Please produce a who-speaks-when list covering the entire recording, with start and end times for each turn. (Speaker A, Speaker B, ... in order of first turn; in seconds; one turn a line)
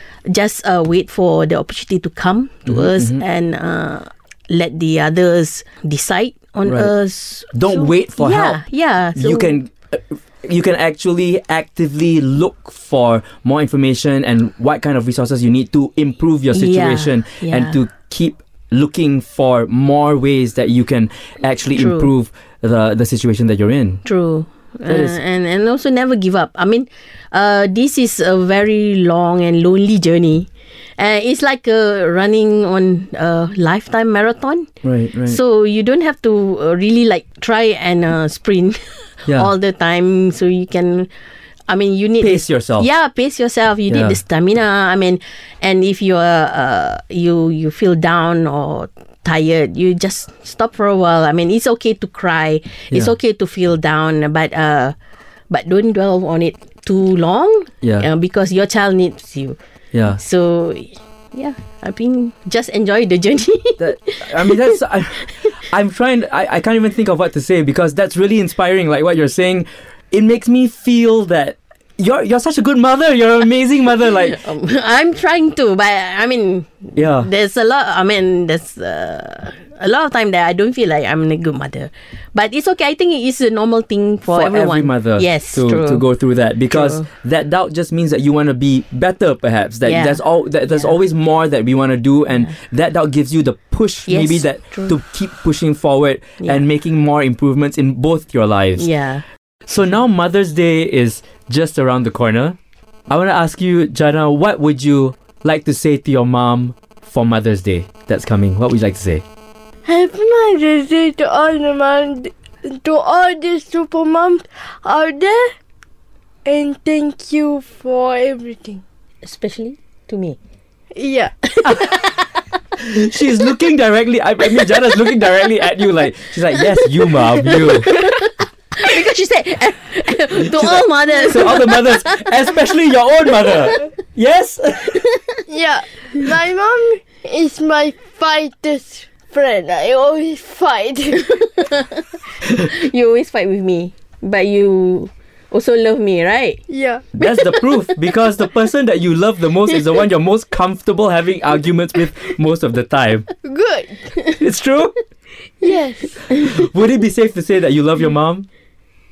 Speaker A: 0.3-9.5
Speaker B: 2.7-3.2
Speaker B: 6.7-6.9
Speaker B: 7.5-8.6
Speaker B: 9.2-24.0
Speaker A: 16.5-17.8
Speaker A: 21.8-22.1
Speaker A: 24.0-34.7
Speaker B: 24.9-25.2
Speaker B: 34.8-35.4
Speaker A: 35.2-41.1
Speaker A: 41.7-54.9
Speaker B: 42.2-42.9
Speaker B: 43.9-44.2
Speaker A: 55.5-59.6
Speaker B: 57.8-58.1
Speaker B: 59.9-60.2
Speaker A: 60.1-64.7
Speaker B: 63.8-74.4
Speaker A: 74.1-86.0
Speaker B: 77.0-77.3
Speaker B: 84.3-98.8
Speaker A: 86.7-87.0
Speaker A: 89.8-90.9
Speaker A: 94.1-94.9
Speaker A: 96.4-96.7
Speaker A: 98.8-99.2
Speaker B: 99.7-102.5
Speaker B: 103.1-109.2
Speaker C: 109.8-115.5
Speaker C: 116.5-118.8
Speaker A: 119.2-120.4
Speaker C: 120.9-121.3
Speaker A: 121.5-122.3
Speaker B: 122.8-127.9
Speaker A: 127.6-132.5
Speaker B: 130.4-135.0
Speaker A: 134.9-135.4
Speaker C: 135.5-141.6
Speaker A: 141.3-146.6
Speaker C: 146.7-147.5
Speaker B: 147.2-153.3
Speaker C: 153.4-154.2
Speaker B: 154.4-154.9
Speaker C: 155.6-156.3
Speaker B: 156.3-158.4